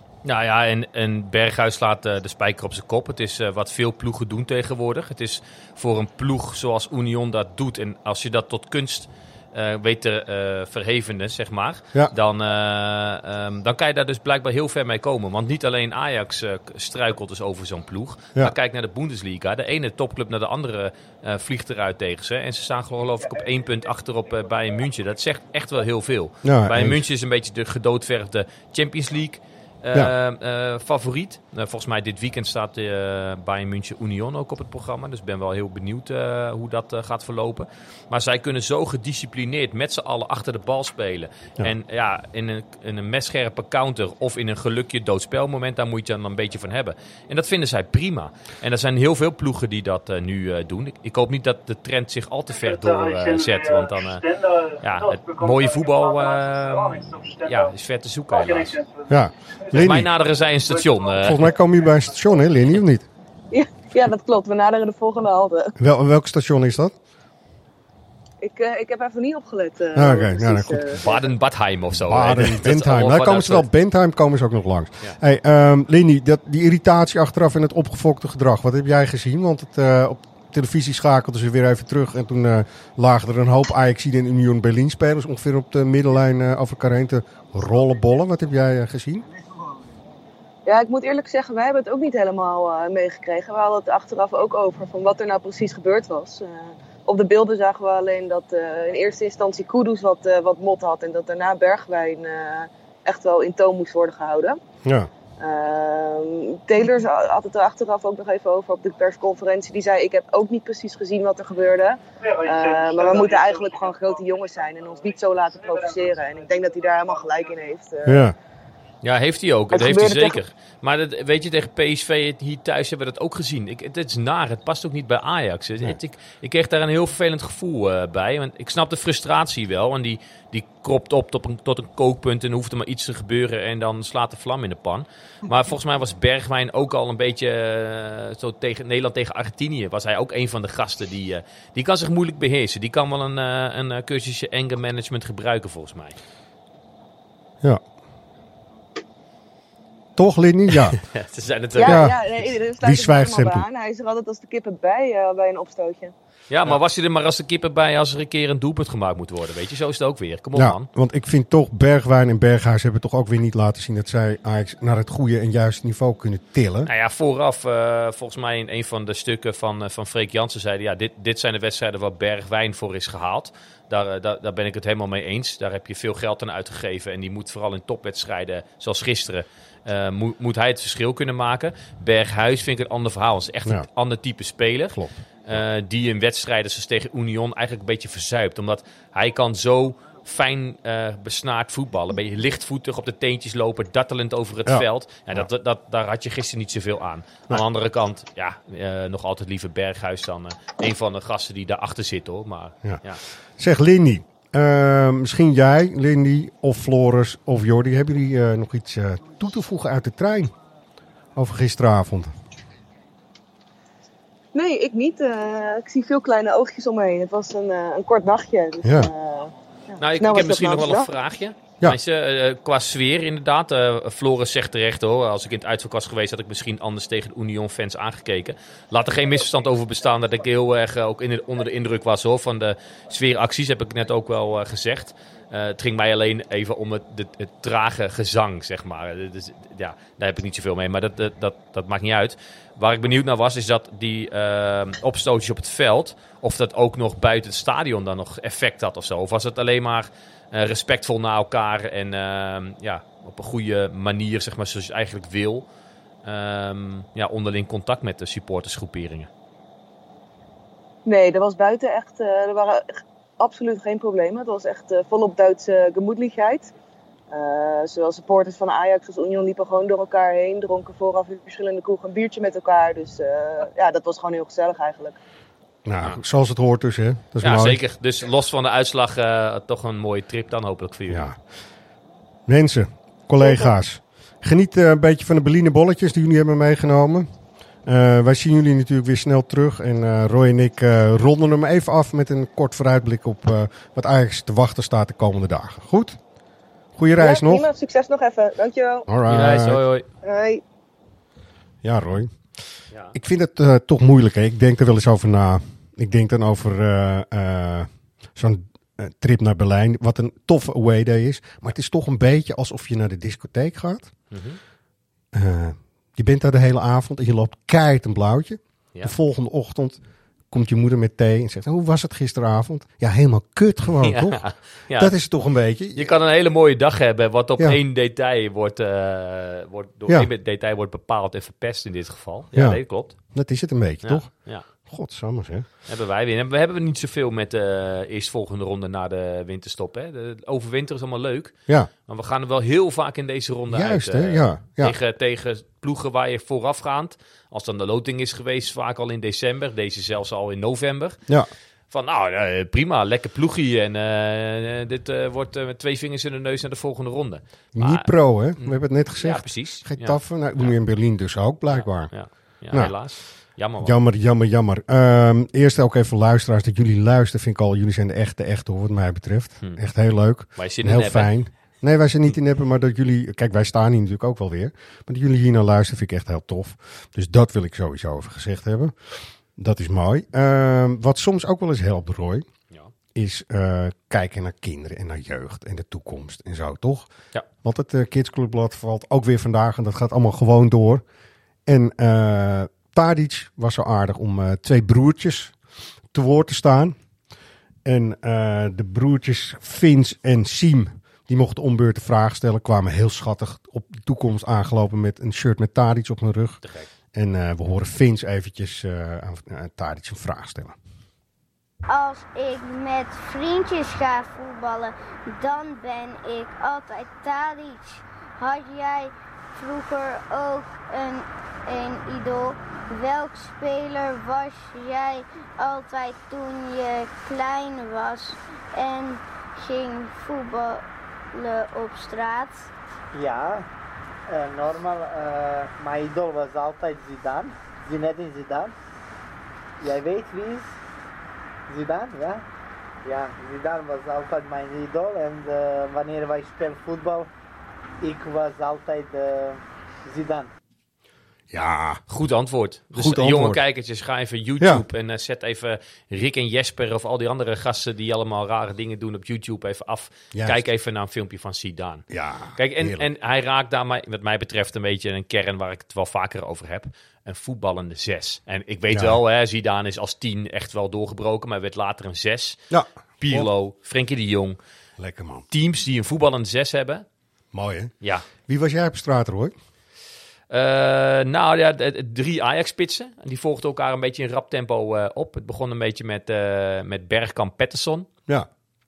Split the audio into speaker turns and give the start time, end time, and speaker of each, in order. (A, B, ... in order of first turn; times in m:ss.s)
0:00.2-0:58.8 A
0:26.4-0:27.0 B
0:59.1-1:00.1 B
0:59.7-1:01.5 A
1:01.2-1:03.1 B
1:03.5-1:05.7 C
1:05.8-1:06.9 B
1:08.4-1:11.0 C
1:09.9-1:11.0 B
1:11.0-1:13.7 A
1:11.9-1:29.2 B
1:30.6-1:44.6 C
1:44.8-1:45.1 B
1:45.4-1:58.3 C
1:58.0-1:58.3 B
1:59.0-2:26.2 A
1:59.7-2:00.4 C
2:30.2-2:31.0 B
2:31.0-2:32.1 A
2:31.8-2:36.1 C
2:31.8-2:32.2 B
2:32.8-2:33.6 B
2:36.5-2:40.9 A
2:40.5-2:46.9 B
2:46.8-3:23.2 A
3:04.9-3:05.6 B
3:14.6-3:15.5 B
3:22.8-3:30.5 B
3:31.3-3:32.3 B
3:34.5-3:41.1 C
3:38.8-3:39.1 B
3:40.0-4:15.6 A
4:16.2-4:19.3 A
4:21.0-4:26.7 C
4:27.3-4:35.2 C
4:35.8-4:37.8 B
4:37.4-4:41.2 A
4:41.1-4:41.4 B
4:42.5-4:47.3 B
4:47.8-4:56.2 B
4:57.0-4:57.6 B
4:57.2-4:59.1 C
4:59.1-4:59.8 B
4:59.2-5:00.0 A
5:00.2-5:00.6 C
5:01.8-5:02.4 B
5:03.1-5:14.1 B
5:14.3-5:14.6 A
5:15.3-5:20.0 B
5:20.5-5:26.1 B
5:24.0-5:25.1 A
5:26.0-5:33.2 A
5:32.5-5:35.7 B
5:34.0-5:34.6 A
5:35.9-5:41.5 A
5:42.0-5:51.2 A
5:43.7-5:45.0 B
5:51.9-6:00.8 A
5:57.7-6:02.2 B
6:01.7-6:04.0 A
6:02.7-6:03.1 B
6:03.8-6:22.4 B
6:10.5-6:11.3 A
6:23.1-6:27.1 B
6:27.6-6:31.0 B
6:31.6-6:35.5 B
6:36.1-6:37.0 B
6:37.8-6:46.6 B
6:46.6-6:46.9 A
6:47.1-6:50.7 B
6:51.9-7:12.7 D
7:13.1-7:13.7 E
7:14.3-7:18.7 E
7:19.8-7:20.8 E
7:21.7-7:22.4 E
7:23.0-7:27.3 E
7:28.0-7:30.5 E
7:31.5-7:32.0 B
7:32.1-7:52.6 A
7:32.9-7:33.6 B
7:40.3-7:40.6 B
7:42.1-7:43.1 B
7:48.9-7:49.2 B
7:52.7-7:53.5 B
7:53.2-7:54.6 A
7:55.0-7:55.4 B
7:55.5-7:57.0 A
7:57.5-7:59.5 B
7:58.0-7:58.3 A
8:00.5-8:08.1 A